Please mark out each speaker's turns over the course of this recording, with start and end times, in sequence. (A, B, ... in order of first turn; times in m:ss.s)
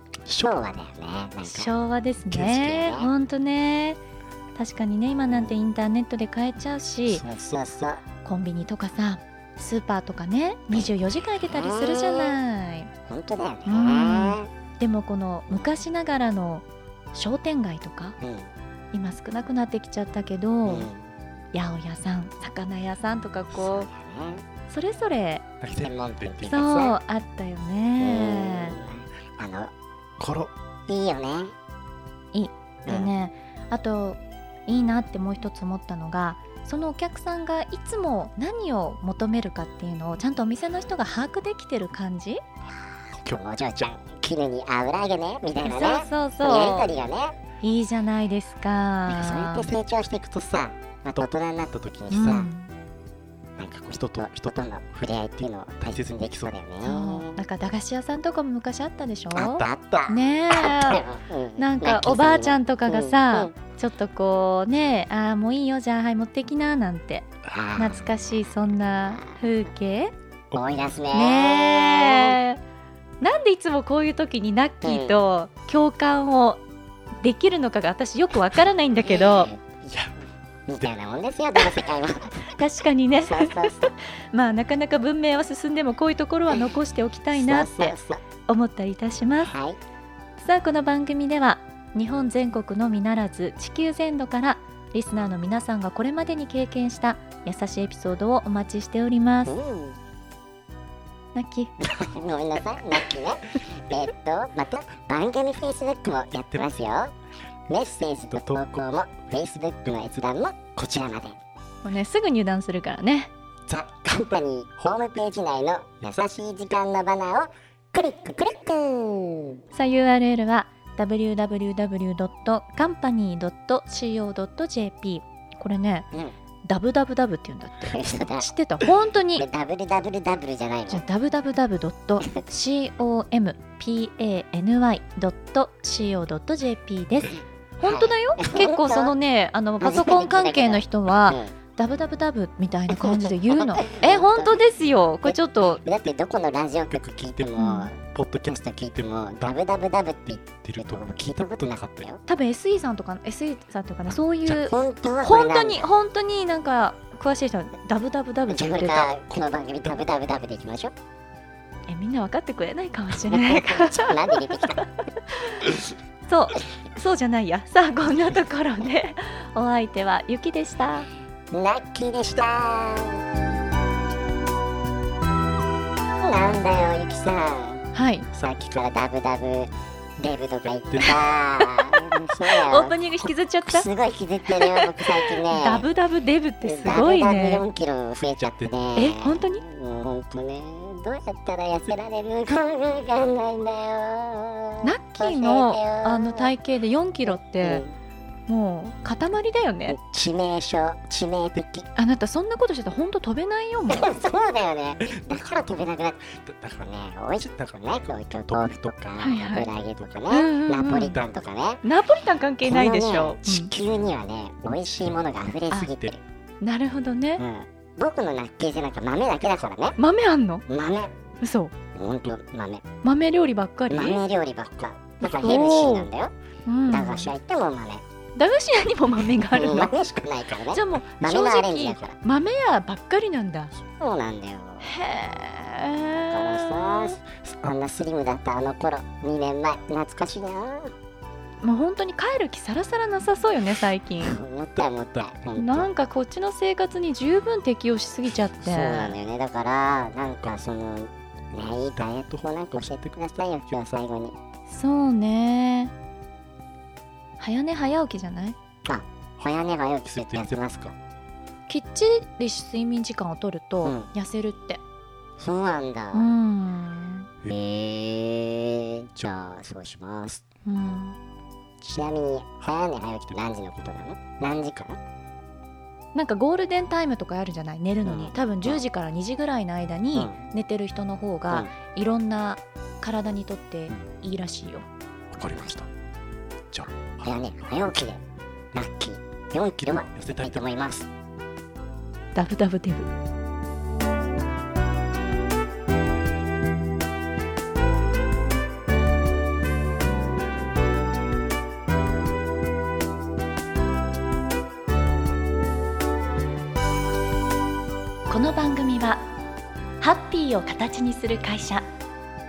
0:00.2-0:01.7 A
0:01.4-0:04.0 B
0:02.3-0:03.1 A
0:04.5-0:07.2 B
0:07.1-0:08.0 A
0:08.2-0:12.9 B
0:11.4-0:12.4 A
0:13.1-0:14.5 A
0:13.6-0:18.2 B
0:18.2-0:18.5 A
0:18.9-0:20.9 B
0:20.6-0:21.1 A
0:21.5-0:23.9 B
0:23.5-0:24.4 A
0:24.7-0:25.4 B
0:25.6-0:26.5 C
0:25.6-0:27.0 A
0:26.4-0:28.8 B
0:28.0-0:29.7 A
0:30.2-0:30.5 C
0:30.9-0:31.5 A
0:32.3-0:42.4 B
0:43.1-0:47.3 A
0:45.6-0:46.9 B
0:47.6-0:49.7 B
0:49.1-0:52.5 A
0:52.1-0:52.7 B
0:53.6-0:57.4 A
0:54.0-0:54.3 C
0:56.8-1:01.0 B
0:59.3-1:03.5 A
1:01.6-1:10.1 B
1:07.4-1:08.2 A
1:09.0-1:09.4 A
1:10.5-1:12.4 A
1:11.1-1:12.6 B
1:13.2-1:16.6 B
1:14.8-1:15.2 A
1:17.2-1:19.5 B
1:19.0-1:20.1 A
1:20.7-1:22.5 A
1:22.5-1:29.5 B
1:23.2-1:23.9 A
1:27.3-1:28.2 A
1:29.4-1:29.8 A
1:30.4-1:39.6 B
1:39.4-1:40.0 A
1:41.3-1:41.7 B
1:41.8-1:47.1 A
1:47.7-1:51.4 A
1:51.8-1:53.3 B
1:53.7-1:59.6 A
1:59.7-2:06.1 B
2:06.7-2:09.4 B
2:07.8-2:08.5 A
2:09.3-2:11.0 A
2:10.9-2:25.8 B
2:17.8-2:19.1 A
2:19.8-2:21.5 A
2:22.9-2:24.6 A
2:25.2-2:32.2 A
2:27.6-2:27.9 B
2:30.7-2:31.8 C
2:32.3-2:39.1 B
2:34.4-2:35.8 A
2:38.5-2:40.9 A
2:41.9-2:45.7 B
2:43.2-2:44.8 A
2:46.3-2:51.1 B
2:51.5-2:53.2 A
2:56.2-3:05.9 A
2:57.9-2:58.3 B
3:02.5-3:03.9 B
3:04.5-3:07.6 B
3:06.6-3:16.5 A
3:08.4-3:08.7 C
3:08.9-3:09.6 B
3:14.8-3:17.8 B
3:17.2-3:17.9 A
3:18.5-3:20.0 B
3:19.9-3:21.9 A
3:22.0-3:24.1 B
3:23.9-3:31.8 A
3:29.2-3:29.7 B
3:30.3-3:31.2 B
3:31.8-3:33.7 B
3:32.6-3:36.2 A
3:35.7-3:35.9 B
3:36.6-3:37.4 B
3:37.4-3:40.0 A
3:40.0-3:40.6 B
3:40.7-3:41.1 A
3:41.4-3:41.7 B
3:41.9-3:42.8 A
3:43.0-3:44.2 B
3:43.9-3:46.3 A
3:45.2-3:46.1 B
3:46.6-3:47.3 B
3:46.9-3:48.0 A
3:48.4-3:49.9 B
3:49.5-3:52.1 A
3:50.7-3:53.7 B
3:54.0-3:54.9 A
3:54.8-3:57.2 B
3:56.1-4:00.9 A
4:01.6-4:04.4 B
4:04.2-4:05.9 A
4:05.6-4:09.2 B
4:08.6-4:14.4 A
4:14.7-4:15.9 B
4:17.4-4:18.6 B
4:18.8-4:20.9 A
4:20.1-4:20.7 C
4:21.7-4:24.8 B
4:23.8-4:24.1 A
4:25.4-4:26.3 A
4:26.1-4:27.3 B
4:27.4-4:30.4 A
4:30.6-4:31.2 B
4:31.8-4:35.0 A
4:36.1-4:44.8 B
4:38.0-4:38.8 A
4:40.1-4:40.4 A
4:45.4-4:45.8 C
4:46.9-4:48.2 A
4:48.7-4:51.1 A
4:50.2-4:50.6 C
4:52.3-4:53.1 B
5:08.3-5:09.2 B
5:10.0-5:11.8 B